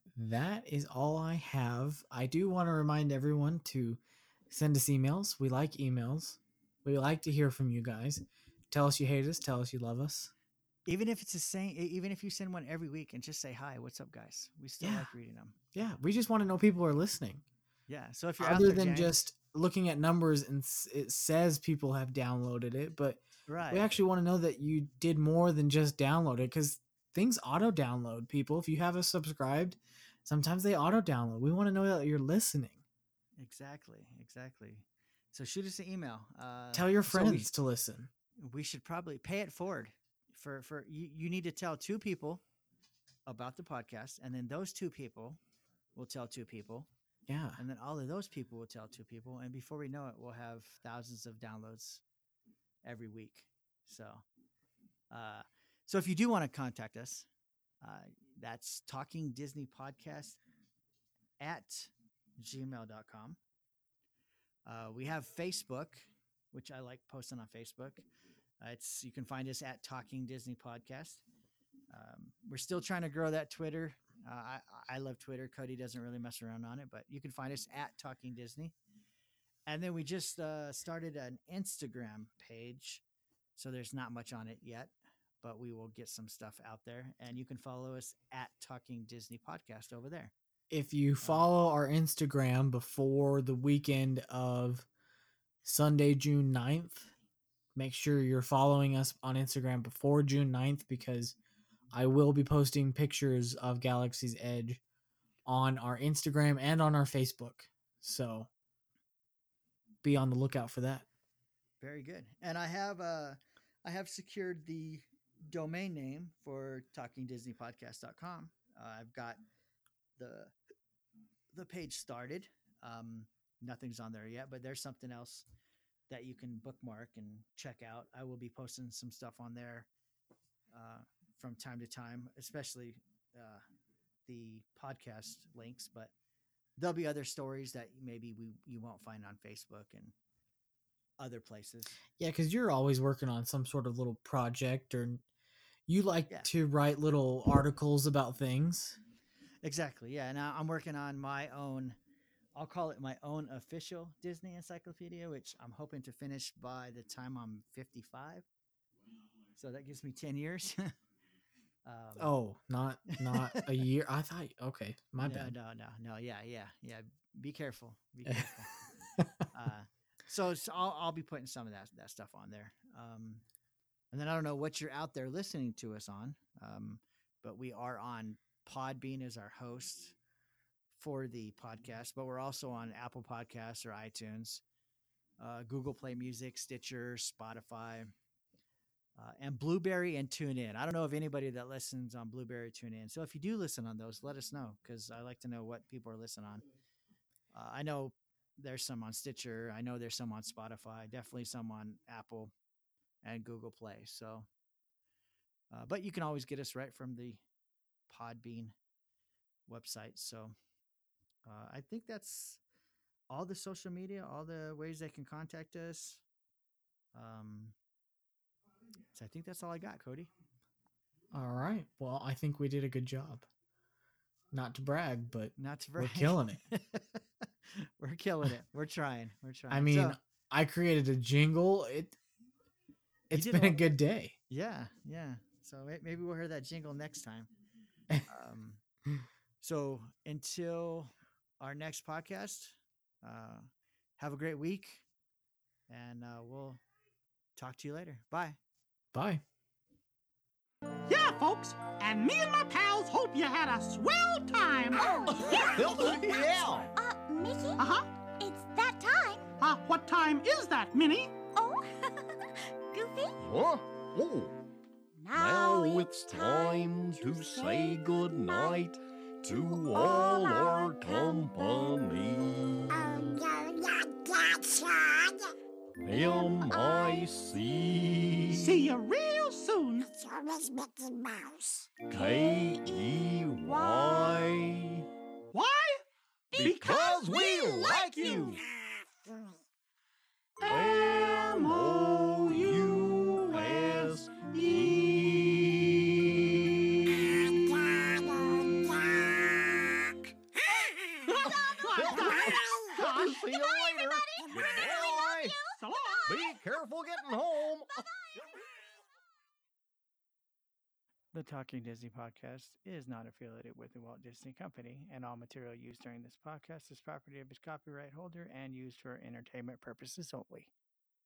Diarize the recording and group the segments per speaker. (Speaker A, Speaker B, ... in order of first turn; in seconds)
Speaker A: 0.1-10.3, 14.8-15.1, 15.7-17.4, 18.4-32.8, 36.7-38.1, 47.3-47.6, 90.7-94.9, 95.7-97.1, 97.8-101.4, 101.9-104.8, 105.5-108.5, 110.0-111.1, 142.2-145.2, 145.9-149.0, 162.2-165.6, 221.3-223.5, 224.5-226.6, 229.7-232.2, 233.3-234.4, 249.1-249.4
Speaker B: 10.9-15.6, 17.9-19.2, 23.5-23.9, 33.4-37.5, 38.4-42.4, 43.3-45.4, 46.0-46.9, 47.6-52.0, 52.8-54.2, 55.1-57.3, 57.8-60.4, 61.4-63.4, 64.7-68.1, 68.6-71.2, 71.9-78.7, 79.7-83.0, 83.6-90.3, 91.2-91.5, 111.8-119.4, 120.2-120.5, 121.5-125.5, 126.1-129.9, 130.7-133.6, 134.3-136.1, 136.8-140.2, 141.2-142.0, 149.6-152.0, 152.6-158.5, 159.6-160.9, 161.8-162.3, 163.2-163.8, 165.2-168.7, 169.5-173.4, 174.1-180.2, 180.9-184.6, 185.4-188.1, 189.2-196.6, 197.5-202.5, 203.2-204.5, 205.7-207.4, 208.1-208.7, 209.7-210.6, 211.4-212.6, 213.3-216.2, 217.1-217.8, 219.1-220.3, 225.6-230.2, 233.3-233.9, 234.5-237.5, 238.3-238.8, 239.6-245.1, 245.9-246.8, 247.6-248.6, 311.3-320.7
Speaker C: 251.1-256.6, 257.8-258.1, 259.6-261.4, 278.5-280.1, 283.7-284.1, 285.5-288.5, 290.6-295.2, 301.3-303.4, 305.8-306.4
Speaker D: 255.0-257.8, 258.4-259.5, 261.5-262.2, 262.9-263.4, 265.3-268.8, 269.7-272.0, 272.9-275.5, 276.1-277.3, 280.1-281.6, 288.1-288.6, 297.7-299.8, 302.0-305.7
Speaker E: 255.3-256.9, 263.4-264.6, 265.3-273.2, 276.0-278.9, 282.1-285.1, 286.6-288.6, 290.7-297.6, 299.2-299.9, 300.6-305.6, 306.3-308.0